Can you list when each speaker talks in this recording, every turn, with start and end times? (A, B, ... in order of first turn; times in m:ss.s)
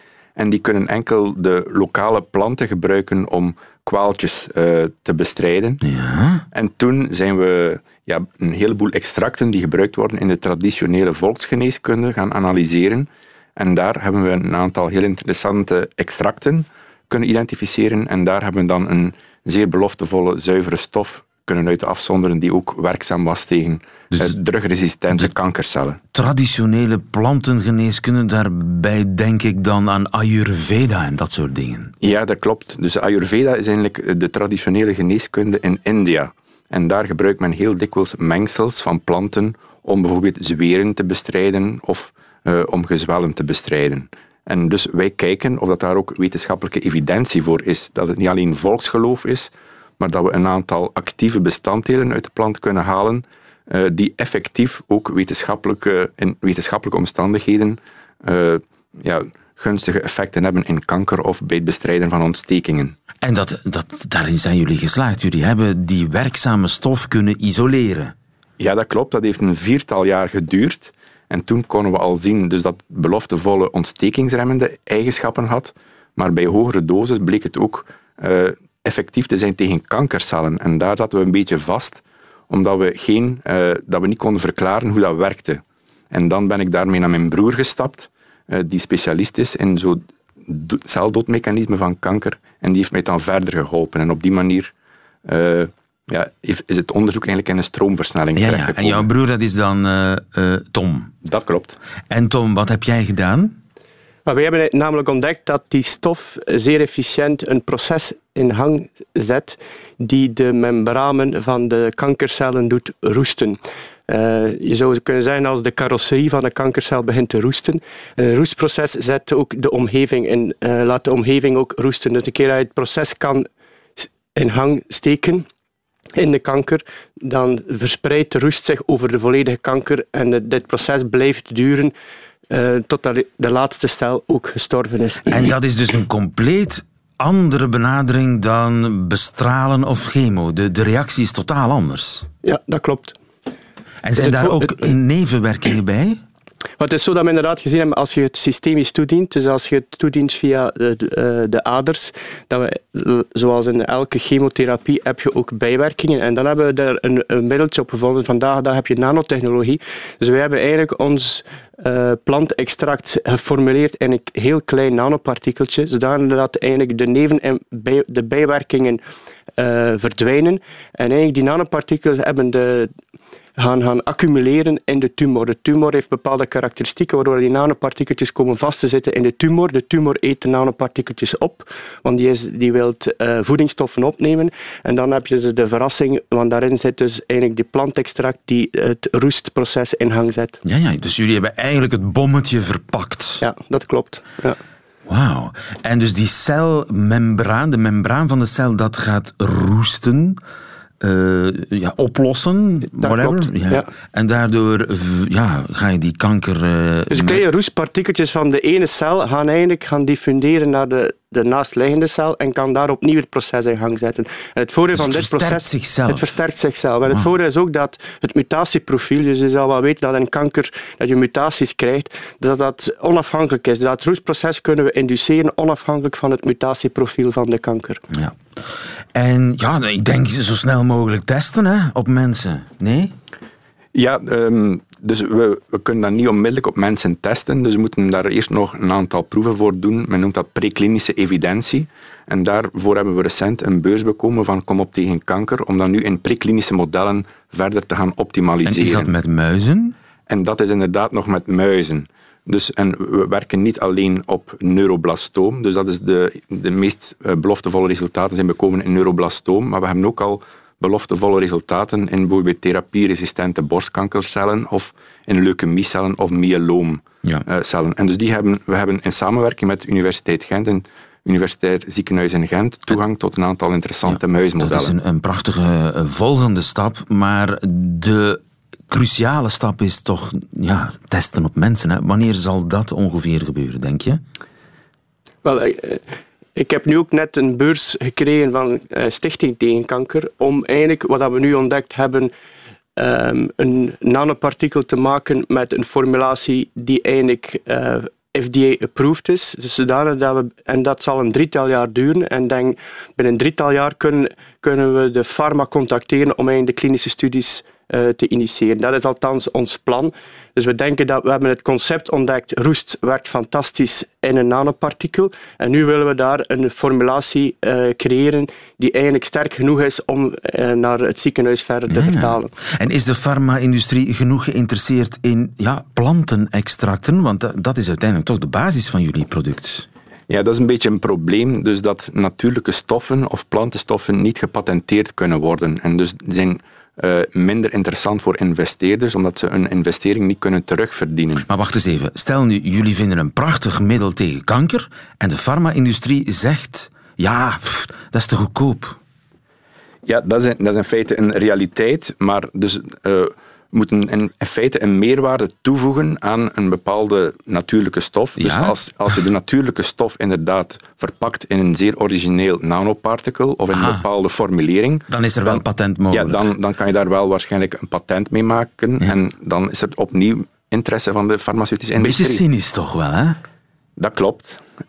0:00.4-0:05.8 A
0:05.8-0:06.4 B
0:06.5-0:26.0 A
0:26.1-0:31.9 B
0:32.0-1:03.0 A
1:03.2-1:08.1 B
1:08.6-1:34.7 A
1:35.2-1:39.1 A
1:38.4-1:41.1 B
1:41.2-1:41.8 A
1:42.1-1:43.6 B
1:44.2-2:05.5 C
2:06.2-2:11.9 C
2:12.5-2:15.3 C
2:15.3-2:22.3 B
2:22.4-2:23.2 C
2:24.0-2:26.2 B
2:24.2-2:24.9 C
2:26.8-2:49.0 C
2:49.6-2:52.9 C
2:53.6-3:10.6 C
3:10.6-3:13.4 B
3:13.4-3:14.6 C
3:15.1-3:20.4 B
3:21.0-3:27.4 B
3:23.0-3:23.9 C
3:27.1-3:48.0 C
3:34.9-3:36.4 B
3:48.1-3:53.1 B
3:53.9-4:09.1 A
4:08.6-4:09.9 B
4:10.3-4:34.9 A
4:34.1-4:44.2 B
4:45.4-4:46.0 C
4:46.6-4:52.3 C
4:53.0-5:22.5 C
5:21.9-5:29.9 B
5:30.3-5:41.4 A
5:41.5-5:49.0 B
5:50.1-6:12.4 A
5:58.4-5:58.8 B
6:03.7-6:04.0 B
6:05.1-6:06.5 B
6:12.0-6:13.4 B
6:14.0-6:14.6 A